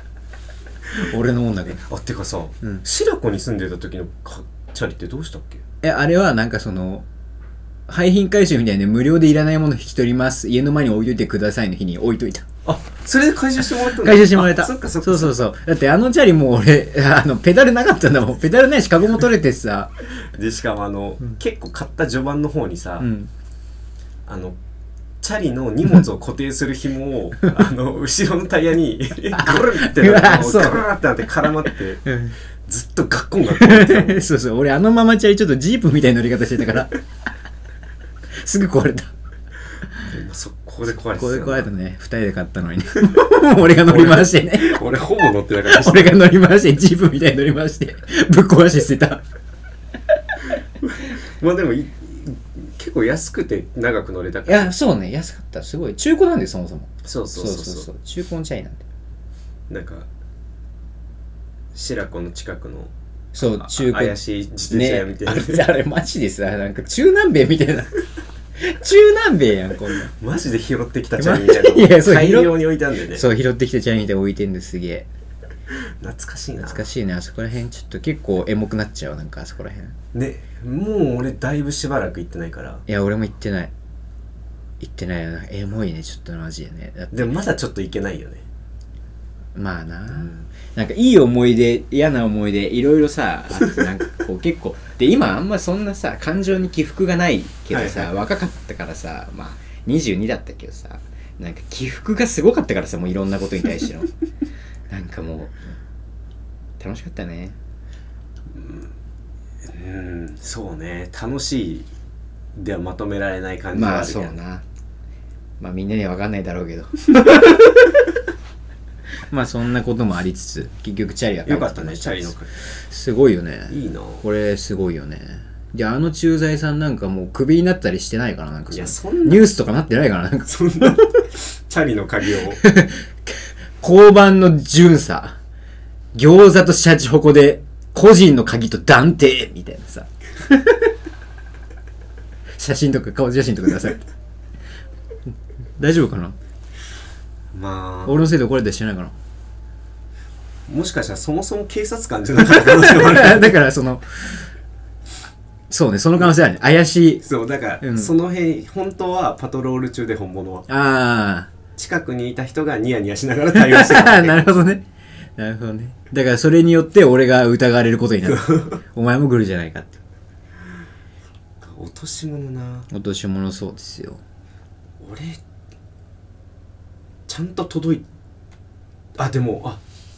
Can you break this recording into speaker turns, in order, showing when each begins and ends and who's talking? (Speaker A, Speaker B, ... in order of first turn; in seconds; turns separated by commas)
Speaker A: 0.9-1.8, Speaker B: 1.7-5.6, Speaker A: 5.8-7.0, Speaker A: 7.9-12.4, Speaker B: 12.6-15.3, Speaker A: 13.8-19.9, Speaker B: 20.2-23.1, Speaker A: 23.0-23.3, Speaker B: 24.3-24.6, Speaker B: 25.2-32.0, Speaker A: 29.3-30.9, Speaker A: 32.0-32.3, Speaker B: 32.6-34.3, Speaker A: 33.5-36.9, Speaker A: 38.3-39.1, Speaker B: 40.1-41.7, Speaker A: 41.1-44.8, Speaker B: 43.9-46.2, Speaker A: 45.6-49.2, Speaker B: 50.8-54.7, Speaker A: 54.5-58.8, Speaker B: 57.0-57.9, Speaker B: 59.7-60.1, Speaker B: 61.7-65.7, Speaker A: 63.3-64.2, Speaker A: 64.7-68.0, Speaker A: 68.6-70.1, Speaker B: 70.1-73.2, Speaker A: 71.2-72.6, Speaker A: 73.1-75.1, Speaker B: 76.0-76.8, Speaker A: 76.6-80.0, Speaker B: 80.1-82.8, Speaker A: 82.9-83.7, Speaker A: 84.8-87.3, Speaker B: 87.1-88.5, Speaker A: 89.5-104.1, Speaker B: 90.1-90.5, Speaker B: 97.7-98.2, Speaker A: 104.9-105.6, Speaker A: 106.8-107.5, Speaker B: 108.5-108.9, Speaker B: 109.6-111.9, Speaker B: 112.5-114.4, Speaker A: 113.7-114.6, Speaker A: 115.6-118.1, Speaker A: 119.3-122.3, Speaker B: 121.5-122.5, Speaker A: 122.9-131.1, Speaker B: 123.7-124.2, Speaker B: 128.7-129.5, Speaker B: 130.4-132.6, Speaker A: 132.6-135.4, Speaker A: 136.1-140.9, Speaker A: 142.6-144.0, Speaker A: 145.8-146.3, Speaker B: 147.5-148.3, Speaker A: 148.1-149.1, Speaker B: 150.7-153.6, Speaker A: 152.4-154.5, Speaker A: 155.7-157.2, Speaker B: 157.2-160.7, Speaker A: 157.8-158.1, Speaker A: 160.7-161.5, Speaker B: 161.8-164.6, Speaker A: 163.5-164.8, Speaker A: 165.4-170.0, Speaker B: 168.2-168.8, Speaker B: 171.6-172.9, Speaker A: 172.9-174.2, Speaker B: 175.0-175.4, Speaker B: 177.3-178.0, Speaker B: 179.2-179.8